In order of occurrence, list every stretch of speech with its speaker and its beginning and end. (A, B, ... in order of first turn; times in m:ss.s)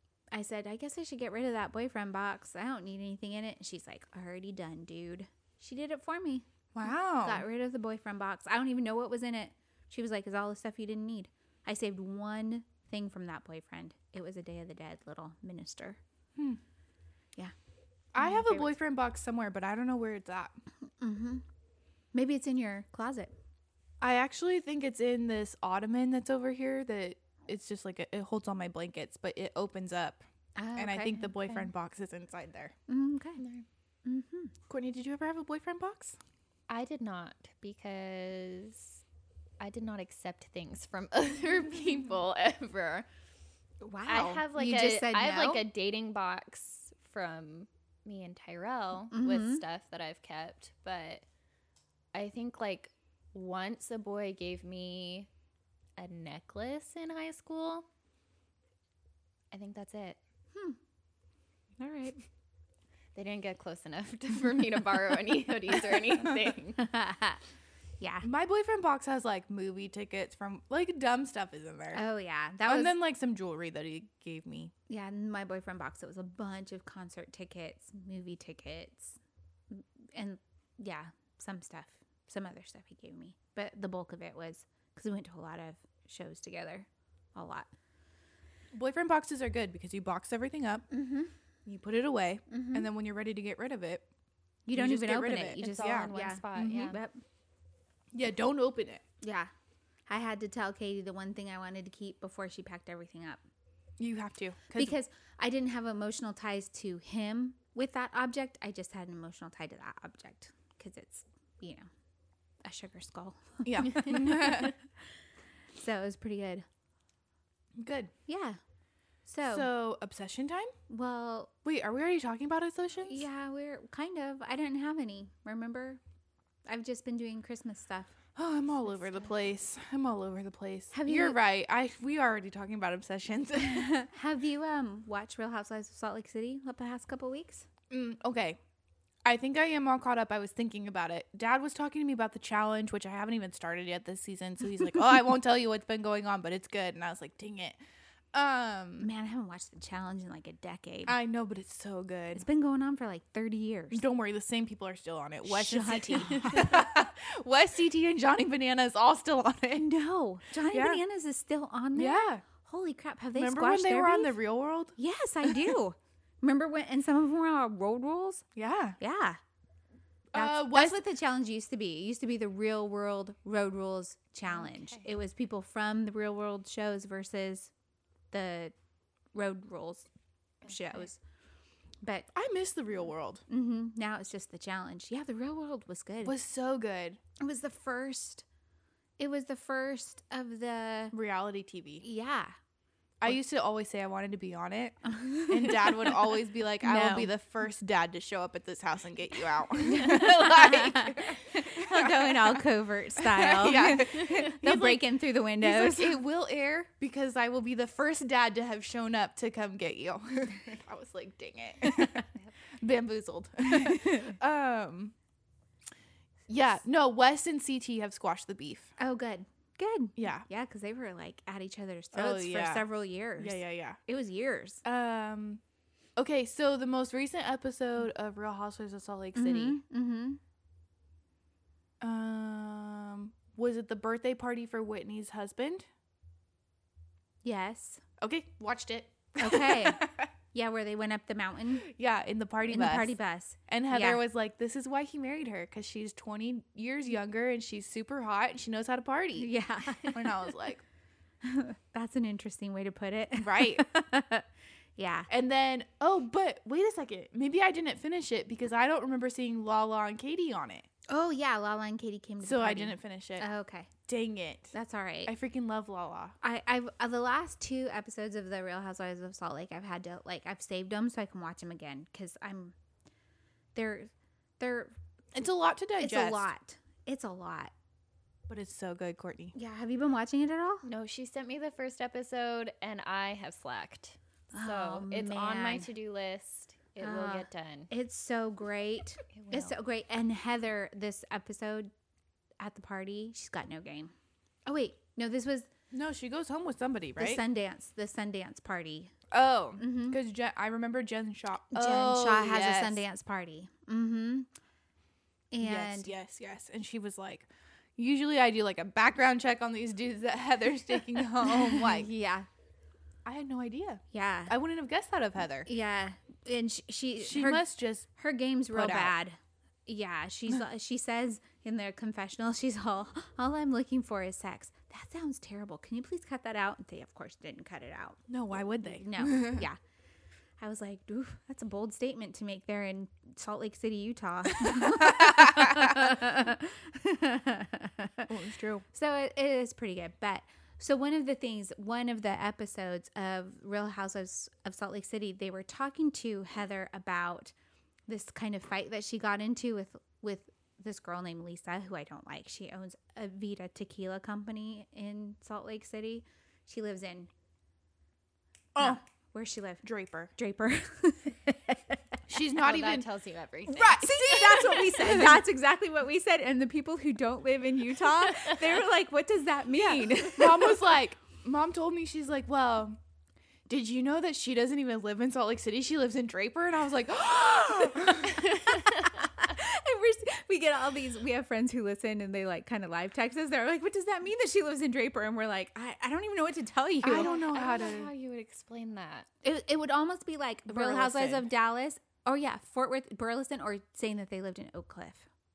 0:00.3-0:06.4 A
0:06.7-0:07.4 B
0:07.2-0:16.0 A
0:18.1-0:20.5 B
0:18.2-0:18.7 A
0:21.0-0:21.4 A
0:22.1-0:23.3 A
0:24.0-0:30.2 B
0:30.6-0:31.3 A
0:30.8-0:32.7 B
0:32.9-0:33.4 A
0:33.4-0:33.6 C
0:34.0-0:34.5 A
0:34.7-0:36.2 B
0:36.7-0:39.0 C
0:39.6-0:43.0 C
0:43.8-0:45.6 A
0:44.1-0:51.2 C
0:49.1-0:49.6 A
0:52.1-0:55.3 C
0:56.0-0:57.8 C
0:59.5-1:00.2 C
1:01.8-1:02.2 A
1:03.1-1:06.8 C
1:06.8-1:07.4 A
1:08.0-1:08.3 A
1:08.2-1:12.0 B
1:11.9-1:12.9 A
1:12.6-1:14.7 B
1:14.9-1:19.2 A
1:19.7-1:27.7 A
1:28.7-1:30.9 B
1:30.9-1:31.3 A
1:31.6-1:34.0 B
1:32.5-1:32.9 A
1:34.6-1:37.2 A
1:34.7-1:36.9 B
1:35.6-1:37.0 C
1:38.1-1:39.0 B
1:39.2-1:39.5 A
1:40.1-1:43.4 A
1:44.0-1:45.0 B
1:44.7-1:51.9 A
1:52.6-1:54.7 A
1:53.6-1:54.7 B
1:55.8-1:56.6 A
1:57.8-1:58.1 B
1:58.3-1:58.6 A
1:59.2-1:59.7 A
1:59.4-2:00.7 B
2:00.9-2:01.5 A
2:01.6-2:03.2 B
2:03.0-2:06.0 A
2:06.7-2:08.2 A
2:08.3-2:13.9 B
2:10.9-2:11.4 A
2:13.6-2:17.7 A
2:17.9-2:18.6 B
2:19.2-2:27.8 B
2:28.3-2:29.1 B
2:29.0-2:31.2 A
2:31.1-2:32.4 B
2:32.3-2:34.0 A
2:33.9-2:39.9 B
2:35.4-2:36.8 A
2:39.7-2:44.4 A
2:40.7-2:41.0 B
2:42.0-2:42.4 B
2:43.3-2:45.7 B
2:45.0-2:48.4 A
2:48.5-2:49.0 B
2:49.0-2:49.4 A
2:50.3-2:51.0 B
2:50.3-2:57.7 A
2:54.5-2:55.0 C
2:58.3-2:58.7 A
2:59.3-3:00.1 A
3:00.6-3:01.2 A
3:02.0-3:02.3 A
3:02.3-3:03.4 B
3:03.5-3:06.3 A
3:06.2-3:07.2 B
3:07.4-3:08.4 A
3:09.2-3:11.1 A
3:11.1-3:12.0 B
3:12.0-3:12.5 A
3:13.2-3:22.6 B
3:15.0-3:16.2 A
3:16.8-3:17.3 A
3:19.8-3:26.2 A
3:23.2-3:32.2 B
3:32.8-3:35.1 B
3:33.8-3:34.3 A
3:36.5-3:38.9 B
3:39.0-3:44.8 A
3:40.2-3:40.4 B
3:42.1-3:42.8 B
3:43.4-3:44.0 B
3:44.8-3:45.6 B
3:46.2-3:49.8 B
3:49.3-3:50.4 A
3:52.0-3:55.9 B
3:57.4-3:58.0 A
3:58.2-4:00.3 B
3:59.4-4:01.9 A
4:01.8-4:03.1 B
4:02.7-4:04.2 A
4:03.7-4:09.5 B
4:09.4-4:10.3 A
4:10.1-4:10.8 B
4:11.4-4:14.4 A
4:13.4-4:13.8 B
4:15.0-4:15.3 A
4:15.3-4:20.8 B
4:21.1-4:23.9 A
4:22.4-4:23.4 B
4:24.1-4:24.7 B
4:24.7-4:25.3 A
4:25.2-4:26.4 B
4:26.4-4:32.7 A
4:33.7-4:35.0 A
4:35.3-4:36.5 B
4:36.0-4:37.7 A
4:38.5-4:39.5 B
4:39.5-4:40.8 A
4:40.8-4:47.9 C
4:44.5-4:45.9 A
4:47.0-4:51.9 A
4:49.3-4:49.7 C
4:52.6-4:54.1 A
4:54.6-4:55.7 A
4:55.9-4:57.4 B
4:57.2-4:59.1 A
4:59.3-5:03.0 B
4:59.8-5:00.2 A
5:01.7-5:04.5 A
5:05.5-5:06.1 A
5:05.6-5:12.1 B
5:11.5-5:12.5 A
5:13.2-5:15.7 B
5:14.1-5:14.5 A
5:15.6-5:28.2 A
5:17.2-5:18.1 B
5:18.7-5:19.1 B
5:28.3-5:29.6 B
5:28.9-5:29.8 A
5:30.6-5:38.3 A
5:34.6-5:36.2 B
5:38.3-5:38.8 B
5:38.9-5:47.5 A
5:48.1-5:57.3 A
5:58.7-5:59.0 B
5:58.8-5:59.8 A
5:59.8-6:00.3 B
6:00.4-6:02.0 A
6:02.3-6:03.1 B
6:02.6-6:04.8 C
6:03.7-6:05.4 B
6:04.0-6:10.8 A
6:10.2-6:13.0 B
6:13.7-6:18.8 B
6:19.0-6:27.3 A
6:27.0-6:28.1 B
6:27.1-6:29.3 C
6:29.4-6:35.2 A
6:30.7-6:31.4 B